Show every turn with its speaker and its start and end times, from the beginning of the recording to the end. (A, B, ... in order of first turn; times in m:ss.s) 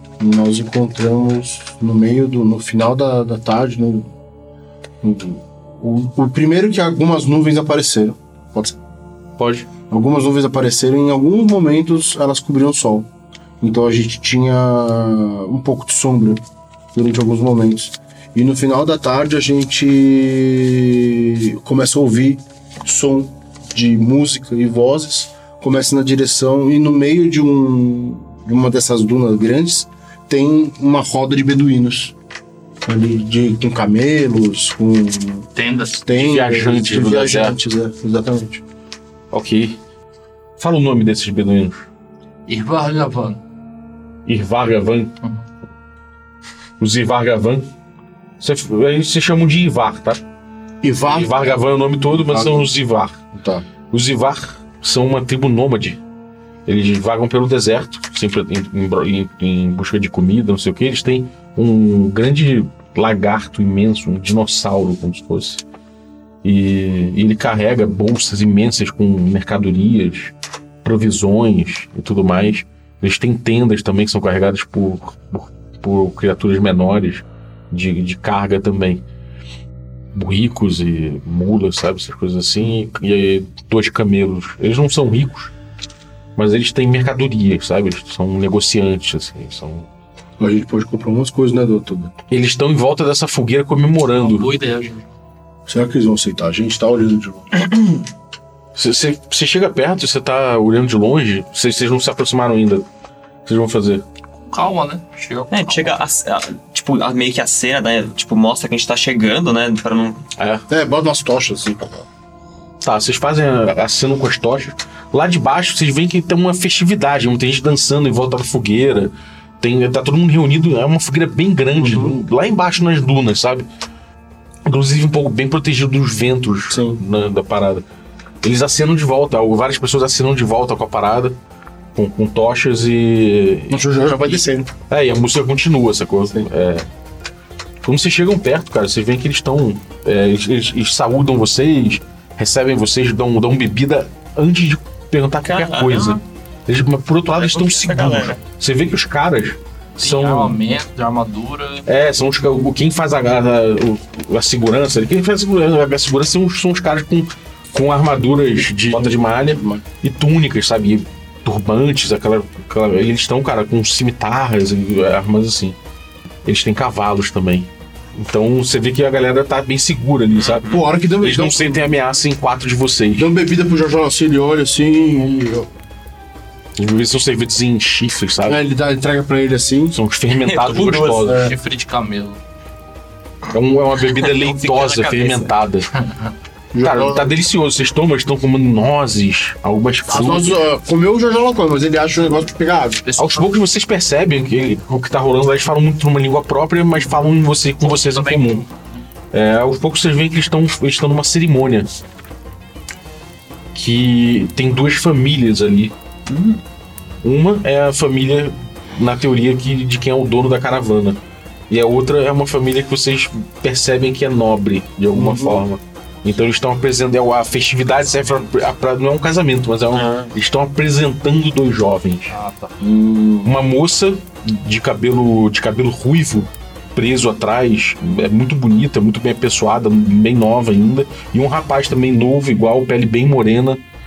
0:00.2-0:04.1 A
0:05.0-0:08.8 A
0:09.4-0:09.7 B
0:09.9-0:13.1 A
0:13.6-0:16.4 A
0:16.9-0:32.1 A
0:32.8-0:35.5 A
0:35.6-0:36.0 C
0:36.0-0:38.6 A
0:36.1-0:37.6 B
0:39.3-0:39.8 B
0:40.6-0:41.9 B
0:42.5-0:43.4 C
0:44.2-0:45.1 B
0:46.8-0:47.7 B
0:48.4-0:50.2 B
0:50.8-0:51.6 A
0:51.0-0:53.2 B
0:52.1-0:52.7 A
0:53.3-0:53.6 A
0:53.9-0:56.0 B
0:56.6-1:05.6 B
1:06.4-1:19.0 B
1:20.1-1:25.5 B
1:26.4-1:29.9 B
1:30.4-1:32.1 A
1:32.3-1:34.5 B
1:34.1-1:35.0 C
1:35.7-1:37.8 A
1:38.7-1:42.9 B
1:43.4-1:44.0 B
1:44.3-1:46.0 C
1:45.5-1:50.2 D
1:50.4-1:50.6 B
1:50.7-1:52.0 A
1:52.8-2:03.7 B
2:01.8-2:02.1 A
2:04.6-2:07.8 B
2:06.7-2:07.0 A
2:08.4-2:11.4 B
2:11.9-2:16.9 B
2:13.7-2:14.7 A
2:17.8-2:30.6 B
2:25.5-2:26.2 D
2:27.4-2:28.4 D
2:30.0-2:31.9 C
2:31.9-2:45.8 B
2:38.9-2:39.8 A
2:46.4-2:53.3 B
2:50.3-2:50.9 D
2:50.7-2:51.9 A
2:53.2-2:55.7 A
2:56.8-2:58.6 B
2:58.5-3:00.0 A
2:59.9-3:01.5 B
3:00.3-3:01.3 D
3:00.8-3:02.4 C
3:01.2-3:01.5 A
3:03.5-3:05.9 B
3:04.1-3:05.5 D
3:06.7-3:07.4 A
3:06.8-3:10.6 B
3:10.1-3:13.0 A
3:13.0-3:13.5 C
3:13.2-3:18.6 B
3:17.8-3:18.7 C
3:19.3-3:21.9 B
3:23.7-3:25.9 B
3:26.3-3:26.6 D
3:27.2-3:42.3 B
3:35.1-3:35.6 A
3:39.9-3:40.3 D
3:42.3-3:42.8 C
3:42.8-3:43.5 A
3:43.4-3:53.8 B